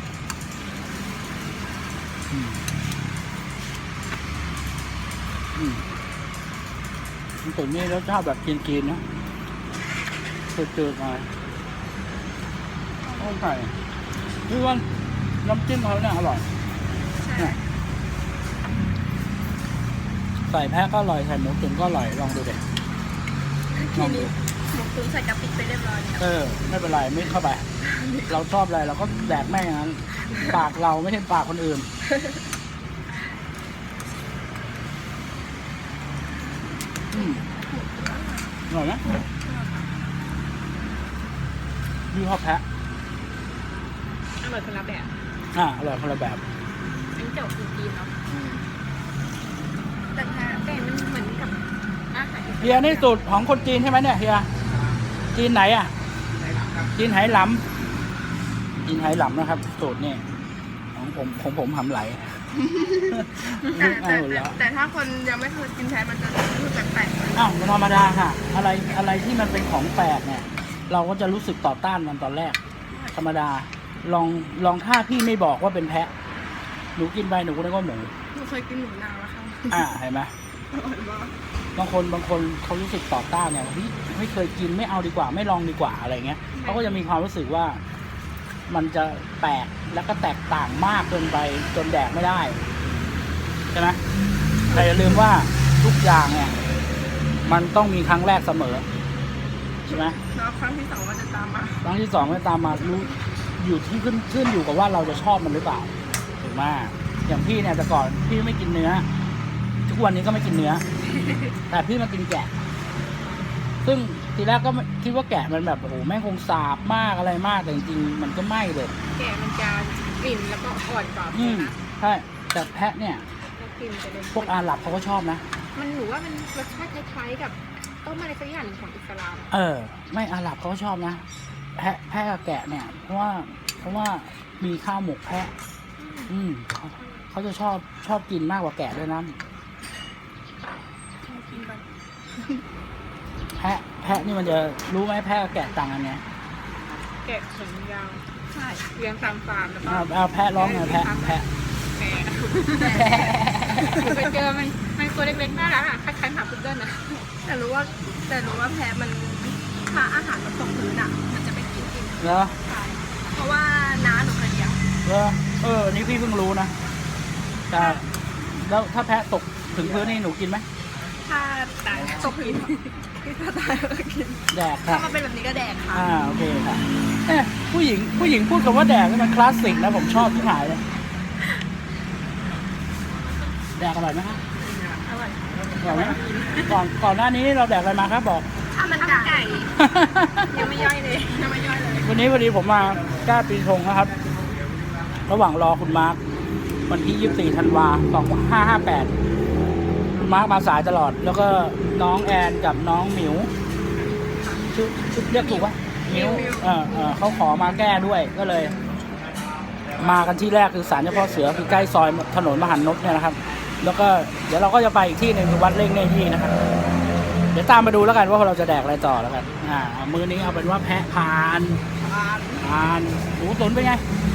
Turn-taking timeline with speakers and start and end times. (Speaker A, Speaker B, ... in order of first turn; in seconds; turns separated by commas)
Speaker A: 2.3-2.6, Speaker A: 5.5-5.8, Speaker A: 7.4-9.0, Speaker A: 10.5-11.3, Speaker A: 13.2-13.7, Speaker A: 14.5-14.9, Speaker A: 15.4-16.5, Speaker B: 17.2-17.6, Speaker A: 20.5-22.6, Speaker B: 23.7-26.3, Speaker A: 23.9-24.3, Speaker A: 26.2-27.7, Speaker B: 27.8-28.3, Speaker A: 28.3-31.9, Speaker B: 37.1-39.9, Speaker A: 37.1-37.4, Speaker A: 38.7-39.0, Speaker A: 42.1-42.6, Speaker C: 44.4-45.1, Speaker A: 45.5-46.4, Speaker C: 47.2-48.1, Speaker B: 48.3-48.6, Speaker B: 50.1-50.6, Speaker C: 50.6-51.6, Speaker C: 52.1-53.3, Speaker A: 52.6-54.5, Speaker A: 55.3-55.9, Speaker A: 56.9-57.6, Speaker A: 58.8-60.3, Speaker A: 61.0-62.4, Speaker B: 62.5-67.6, Speaker A: 63.1-64.6, Speaker A: 67.3-72.6, Speaker B: 72.9-73.2, Speaker A: 73.1-76.1, Speaker A: 77.0-78.1, Speaker B: 78.3-79.9, Speaker A: 79.7-80.3, Speaker B: 80.7-81.4, Speaker A: 81.8-87.8, Speaker A: 88.7-92.6, Speaker A: 93.7-94.0, Speaker B: 94.7-95.0, Speaker A: 94.7-96.6, Speaker A: 97.4-98.9, Speaker B: 99.9-101.9, Speaker A: 99.9-100.2, Speaker A: 101.8-109.1, Speaker A: 109.9-110.8, Speaker A: 111.7-112.5, Speaker A: 113.8-118.9, Speaker C: 119.2-121.8, Speaker A: 121.3-123.2, Speaker C: 123.5-124.6, Speaker A: 124.3-125.4, Speaker C: 125.7-129.5, Speaker A: 129.5-131.2, Speaker A: 131.8-135.5, Speaker C: 136.0-136.3, Speaker A: 136.3-139.4, Speaker C: 141.4-141.7, Speaker B: 141.5-141.8, Speaker A: 143.6-146.2, Speaker C: 147.2-148.2, Speaker B: 148.5-148.9, Speaker C: 148.9-153.1, Speaker A: 149.8-151.4, Speaker B: 152.7-154.3, Speaker A: 152.8-154.1, Speaker C: 153.8-157.3, Speaker B: 157.4-162.7, Speaker A: 162.2-162.5, Speaker C: 162.7-162.9, Speaker B: 163.3-164.8, Speaker A: 165.0-166.7, Speaker A: 167.7-170.7, Speaker B: 171.2-176.1, Speaker C: 172.0-172.5, Speaker A: 174.5-175.1, Speaker A: 175.9-180.8, Speaker A: 183.8-184.4, Speaker C: 185.1-186.7, Speaker A: 185.8-188.5, Speaker B: 188.8-189.7, Speaker C: 188.9-189.7, Speaker A: 189.8-190.5, Speaker C: 190.5-191.0, Speaker B: 190.5-192.2, Speaker A: 192.0-194.1, Speaker A: 195.3-196.2, Speaker A: 196.9-199.1, Speaker A: 200.2-203.5, Speaker C: 203.9-204.7, Speaker A: 204.7-208.8, Speaker B: 205.3-206.8, Speaker A: 210.0-216.5, Speaker A: 217.5-221.8, Speaker B: 222.0-222.7, Speaker A: 222.6-224.1